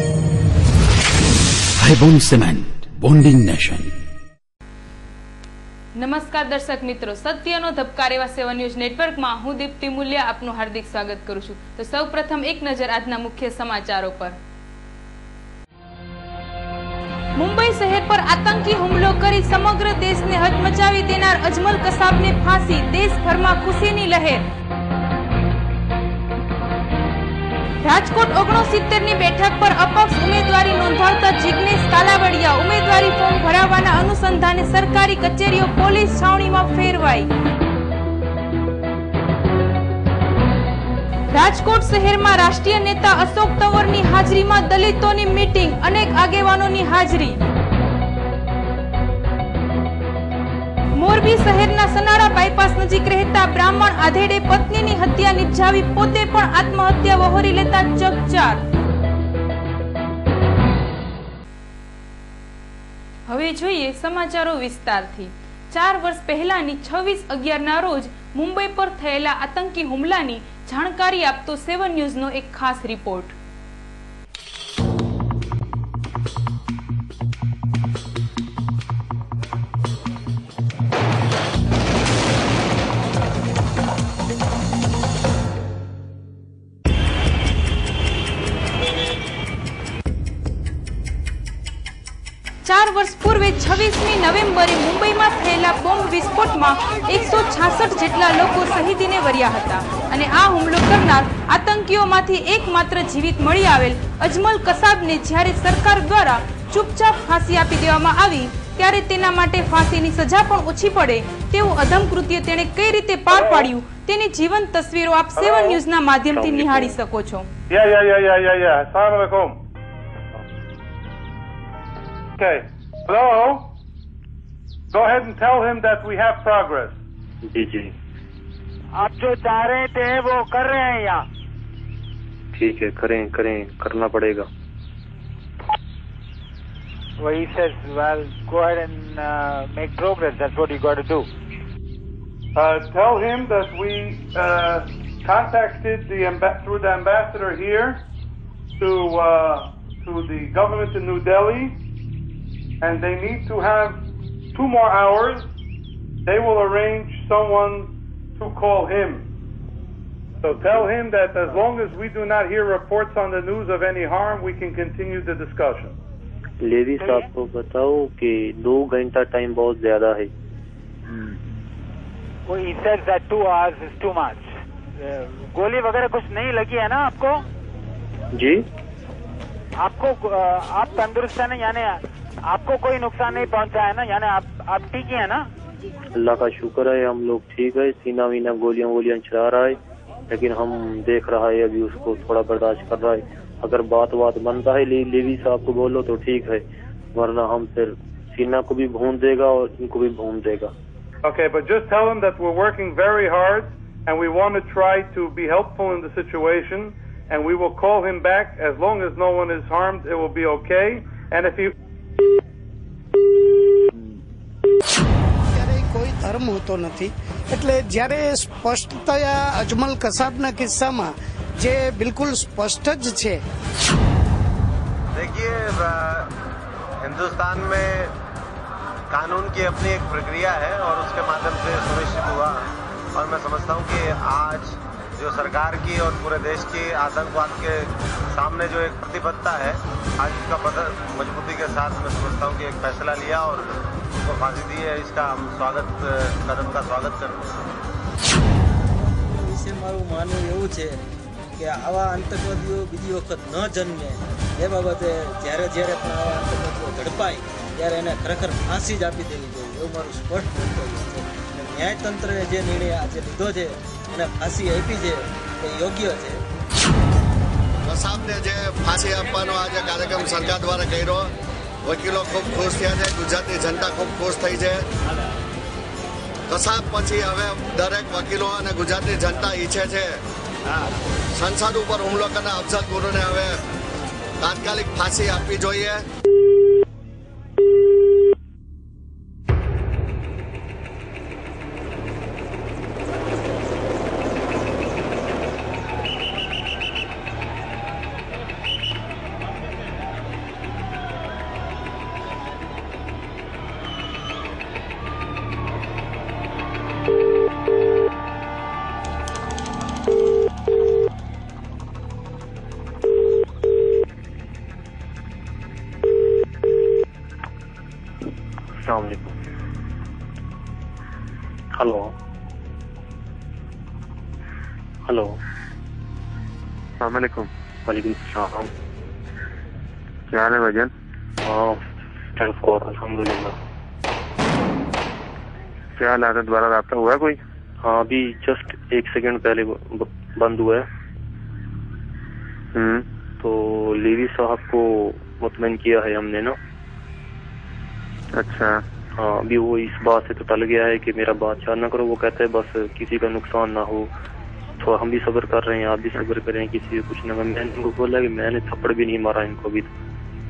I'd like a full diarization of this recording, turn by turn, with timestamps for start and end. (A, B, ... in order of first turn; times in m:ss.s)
0:01.8-0:04.0 A
0:06.0-0:14.4 B
0:17.4-0:24.5 B
0:27.8-0:37.3 B
0:41.3-0:47.4 B
0:51.0-0:58.6 B
1:03.3-1:13.3 B
1:32.6-1:57.5 B
1:53.3-1:53.7 C
1:56.3-1:57.0 D
1:57.7-1:59.6 C
2:02.4-2:03.7 C
2:04.9-2:07.0 C
2:07.5-2:07.9 D
2:09.0-2:11.2 E
2:12.5-2:14.5 D
2:17.2-2:21.3 E
2:22.5-2:28.0 C
2:28.8-2:31.8 C
2:32.8-2:34.0 C
2:34.5-2:35.5 C
2:36.2-2:39.3 C
2:40.4-2:46.0 C
2:46.6-2:50.3 D
2:47.0-2:47.2 E
2:52.5-2:54.5 E
2:55.0-2:57.4 E
2:58.3-2:58.6 D
2:59.8-3:05.4 E
3:06.2-3:09.8 D
3:10.3-3:16.6 D
3:17.1-3:20.7 D
3:21.2-3:31.7 C
3:35.5-3:43.4 F
3:45.1-3:46.3 G
3:47.0-3:48.1 G
3:49.1-4:07.6 G
4:08.7-4:11.0 H
4:11.5-4:26.4 H
4:27.8-4:31.3 I
4:31.8-4:34.8 I
4:36.5-4:40.2 I
4:41.3-4:43.6 I
4:44.4-4:46.0 I
5:18.8-5:19.3 D
5:21.7-5:22.1 D
5:25.0-5:25.3 D
5:27.0-5:27.5 J
5:27.9-5:28.6 D
5:30.3-5:30.9 J
5:31.4-5:31.8 D
5:32.3-5:33.5 D
5:36.0-5:37.4 J
5:37.8-5:40.8 D
5:42.8-5:43.0 J
5:43.4-5:46.6 D
5:48.4-5:48.8 J
5:49.2-5:54.1 D
5:54.8-5:59.9 D